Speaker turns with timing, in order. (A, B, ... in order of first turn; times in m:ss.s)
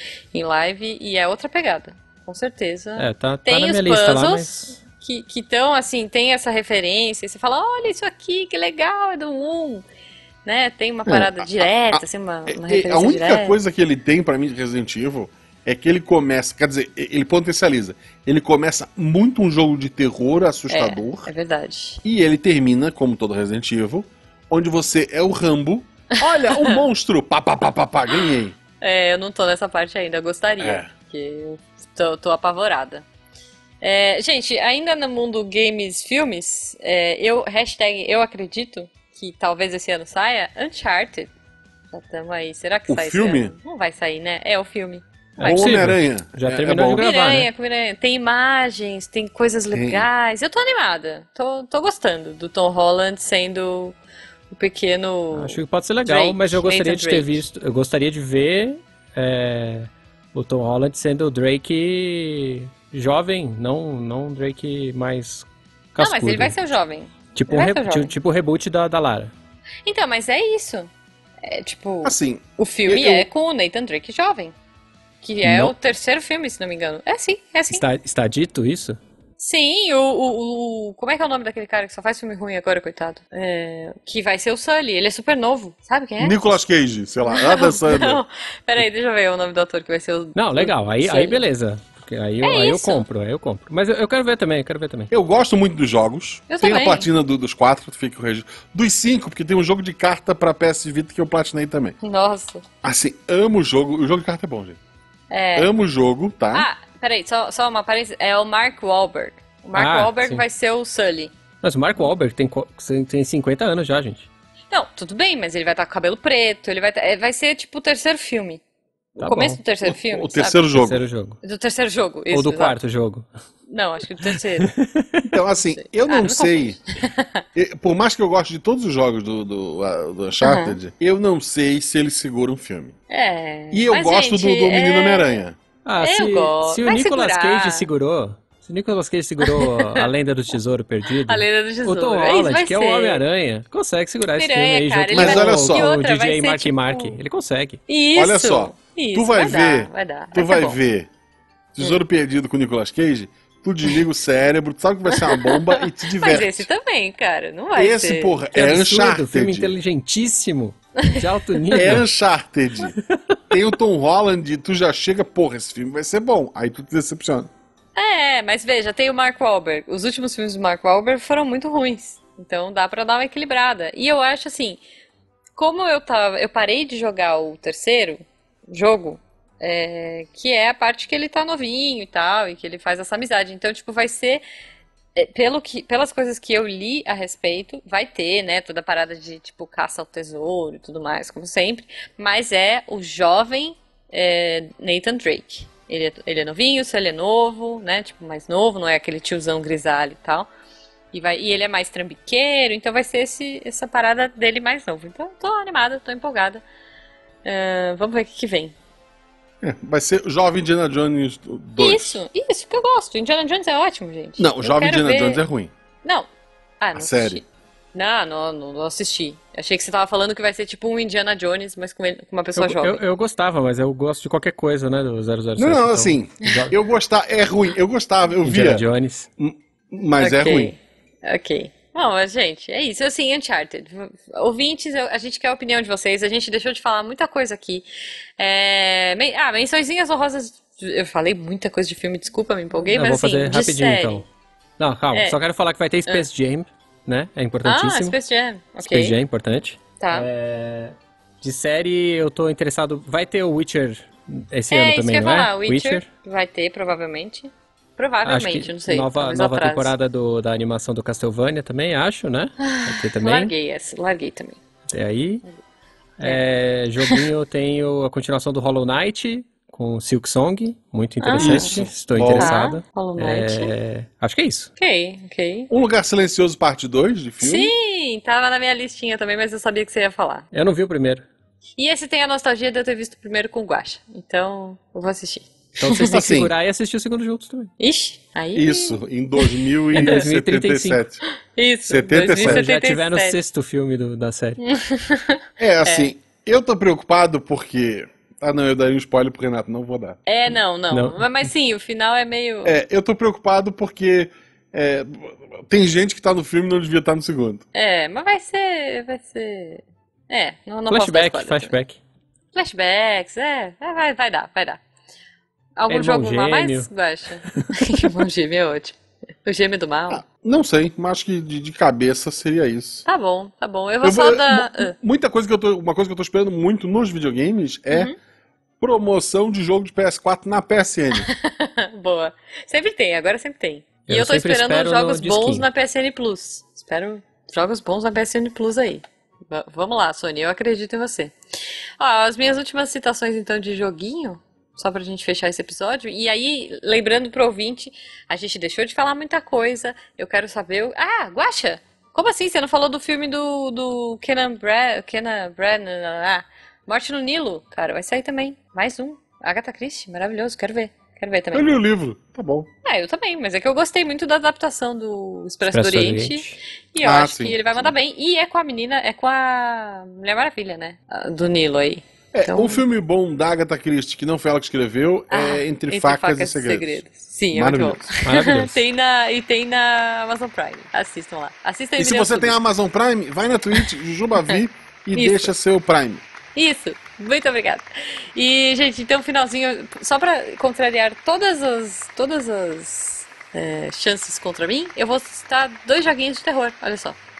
0:00.3-0:09.8 A
0:03.0-0:04.8 B
0:10.4-0:13.6 A
0:11.0-0:21.3 C
0:20.7-0:22.0 A
0:22.0-0:28.6 C
0:26.2-0:26.8 A
0:28.8-0:33.0 A
0:30.6-0:30.9 C
0:33.8-0:41.3 A
0:41.9-0:45.6 A
0:42.9-0:43.5 C
0:45.4-0:47.5 B
0:45.4-0:47.0 C
0:46.9-0:54.0 A
0:49.7-0:50.0 C
0:54.5-0:57.4 A
0:55.3-1:06.6 B
1:06.0-1:08.1 A
1:07.3-1:09.3 B
1:09.8-1:10.9 A
1:11.4-1:14.5 A
1:12.0-1:13.3 C
1:15.2-1:17.8 A
1:15.4-1:15.7 B
1:17.7-1:19.0 B
1:19.4-1:26.4 A
1:26.2-1:28.2 C
1:27.3-1:31.4 A
1:30.4-1:35.1 B
1:32.4-1:33.0 A
1:35.1-1:42.0 C
1:36.5-1:37.1 A
1:42.0-1:42.6 A
1:42.8-1:44.8 C
1:45.3-1:45.7 A
1:45.5-1:46.7 C
1:46.5-1:51.3 A
1:49.7-1:50.4 B
1:51.6-1:54.3 B
1:54.7-1:58.6 A
1:59.2-1:59.6 B
1:59.2-2:00.6 A
1:59.8-2:01.0 C
2:00.7-2:01.4 B
2:01.4-2:02.8 A
2:02.3-2:03.2 B
2:03.7-2:04.7 A
2:04.2-2:05.2 B
2:05.2-2:06.8 C
2:05.7-2:07.4 A
2:07.6-2:13.0 C
2:10.4-2:10.8 A
2:13.1-2:15.4 A
2:13.7-2:15.6 C
2:15.8-2:27.8 B
2:16.0-2:17.9 A
2:19.4-2:20.1 A
2:21.2-2:23.2 A
2:24.3-2:27.2 A
2:25.1-2:25.9 C
2:27.9-2:30.8 A
2:28.1-2:31.1 C
2:31.7-2:36.7 C
2:35.1-2:38.4 A
2:37.7-2:39.7 C
2:38.5-2:42.1 B
2:41.0-2:41.9 A
2:41.7-2:42.9 C
2:43.5-2:47.5 C
2:48.0-2:54.8 A
2:55.6-3:04.4 A
3:05.1-3:20.5 A
3:21.1-3:26.6 A
3:27.4-3:28.7 A
3:29.6-3:32.2 C
3:31.8-3:35.4 A
3:34.4-3:35.7 C
3:36.8-3:43.0 A
3:36.9-3:37.4 C
3:42.6-3:46.7 B
3:45.6-3:48.8 C
3:48.4-3:49.3 B
3:49.4-3:50.7 C
3:50.2-3:57.8 A
3:58.4-4:04.2 A
4:02.9-4:04.3 B
4:04.8-4:08.2 B
4:07.6-4:09.2 A
4:08.8-4:16.1 B
4:10.0-4:10.3 A
4:14.7-4:19.9 A
4:18.2-4:23.5 B
4:22.6-4:24.6 A
4:24.9-4:25.4 B
4:26.2-4:34.7 B
4:31.2-4:31.8 A
4:31.4-4:32.6 C
4:32.4-4:33.7 A
4:34.8-4:35.7 A
4:35.7-4:37.7 C
4:37.4-4:40.5 A
4:40.5-4:41.3 B
4:41.8-4:46.2 A
4:45.8-4:47.7 B
4:46.1-4:46.5 C
4:47.8-4:50.2 A
4:48.5-4:51.2 C
4:49.9-4:51.0 B
4:51.5-4:53.4 A
4:51.9-4:52.6 C
4:52.4-4:54.6 B
4:54.6-4:56.1 A
4:55.6-5:00.2 C
5:00.3-5:02.8 A
5:00.9-5:01.5 B
5:02.6-5:07.6 C
5:07.7-5:11.7 A
5:10.9-5:12.0 B
5:12.5-5:14.8 A
5:15.8-5:20.2 A
5:15.9-5:16.9 B
5:17.5-5:18.1 B
5:20.1-5:23.0 C
5:23.0-5:24.9 A
5:24.0-5:28.1 C
5:27.9-5:28.2 A
5:28.8-5:31.3 C
5:31.2-5:41.3 A
5:34.1-5:35.6 B
5:42.0-6:01.8 A
6:01.5-6:02.7 C
6:02.8-6:12.8 A
6:05.7-6:06.6 B
6:07.0-6:07.9 C
6:12.3-6:18.1 C
6:15.3-6:22.6 A
6:18.2-6:18.8 B
6:22.0-6:26.2 C
6:25.1-6:25.5 A
6:26.5-6:37.2 A